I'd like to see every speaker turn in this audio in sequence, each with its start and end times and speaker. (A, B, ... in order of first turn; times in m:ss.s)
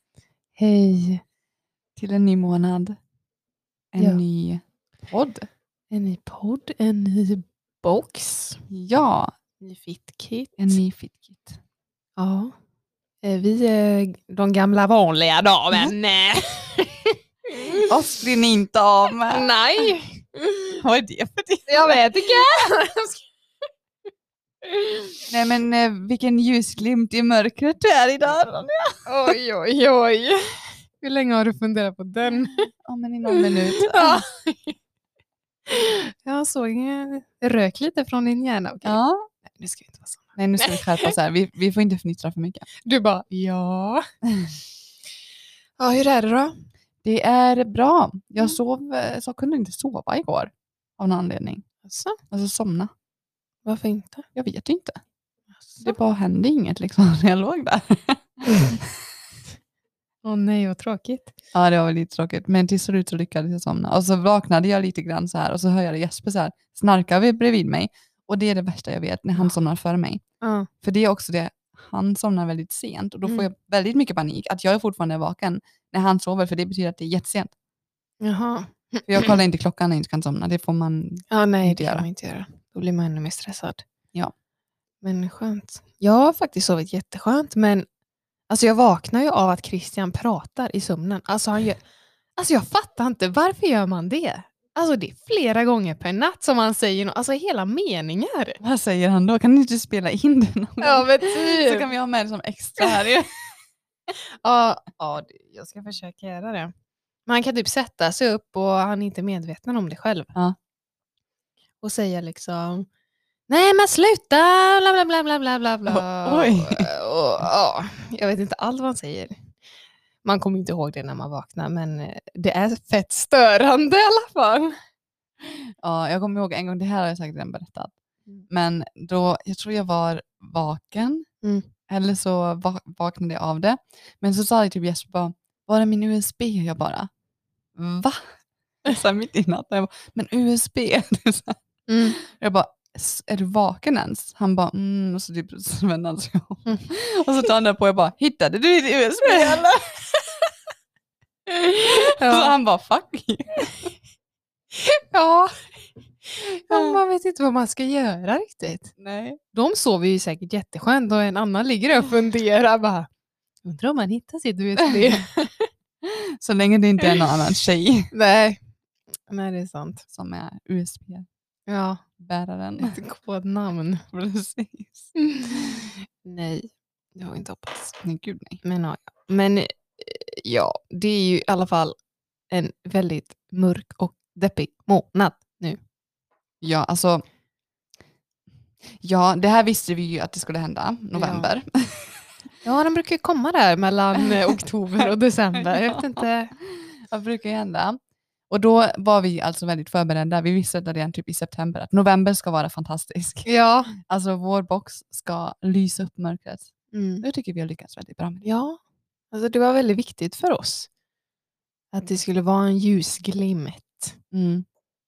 0:00.6-0:01.2 A
0:02.0-0:03.0 B
0:03.9-0:05.5 B
0:05.9-0:08.6 A
0:08.7-0:09.3 B
0:09.6-0:10.8 A
0:10.6-0:11.6 B
0:12.2-0:12.5 A
0:13.2-0:17.9 A
0:17.8-0:19.5 B
0:19.3-0:20.7 A
0:20.8-0:22.0 B
0:21.7-0:23.2 A
0:24.6-0:25.2 A
0:25.3-0:29.3 B
0:29.0-0:32.7 A
0:32.8-0:34.2 B
0:33.3-0:34.8 A
0:35.7-0:41.1 A
0:38.8-0:39.2 B
0:40.3-0:42.7 B
0:42.8-0:44.0 A
0:45.8-0:46.5 A
0:47.0-0:51.6 B
0:51.8-0:52.2 A
0:52.3-0:52.9 B
0:53.6-0:54.2 A
0:54.3-0:55.0 B
0:55.6-0:55.9 A
0:55.8-0:58.8 B
1:00.2-1:01.3 A
1:01.5-1:10.2 B
1:10.4-1:10.7 A
1:10.8-1:17.5 B
1:18.2-1:19.4 A
1:19.1-1:22.1 B
1:21.3-1:23.8 A
1:25.0-1:27.9 A
1:28.5-1:31.8 A
1:32.4-1:38.6 A
1:38.6-1:43.3 B
1:40.8-1:41.9 A
1:44.4-1:46.7 A
1:47.3-1:50.3 A
1:51.8-1:52.9 A
1:53.5-1:59.4 A
1:55.9-1:56.9 B
2:00.2-2:04.7 A
2:05.4-2:08.0 B
2:08.5-2:11.2 B
2:11.4-2:11.7 A
2:11.9-2:17.1 B
2:17.8-2:18.3 B
2:18.8-2:21.6 B
2:21.9-2:22.2 A
2:22.2-2:29.8 B
2:31.5-2:32.5 A
2:32.1-2:33.9 B
2:34.7-2:35.6 A
2:36.2-2:38.9 A
2:36.7-2:37.0 B
2:39.0-2:39.4 B
2:39.5-2:43.1 A
2:43.6-2:45.7 A
2:46.0-2:48.1 B
2:48.1-2:48.6 A
2:49.3-2:50.0 A
2:50.1-2:51.3 B
2:51.7-2:52.0 A
2:52.2-2:53.0 B
2:52.8-2:54.0 A
2:54.1-2:55.8 B
2:55.2-2:57.9 A
2:58.0-2:58.6 B
2:58.6-3:02.0 A
3:02.5-3:05.8 A
3:06.6-3:07.2 B
3:08.9-3:12.2 B
3:11.1-3:11.5 A
3:12.6-3:16.5 A
3:14.2-3:14.5 B
3:15.1-3:18.0 B
3:18.5-3:23.5 B
3:23.4-3:23.9 A
3:24.0-3:28.4 B
3:26.9-3:27.2 A
3:28.4-3:28.8 A
3:29.3-3:30.9 A
3:31.9-3:34.2 A
3:34.3-3:34.6 B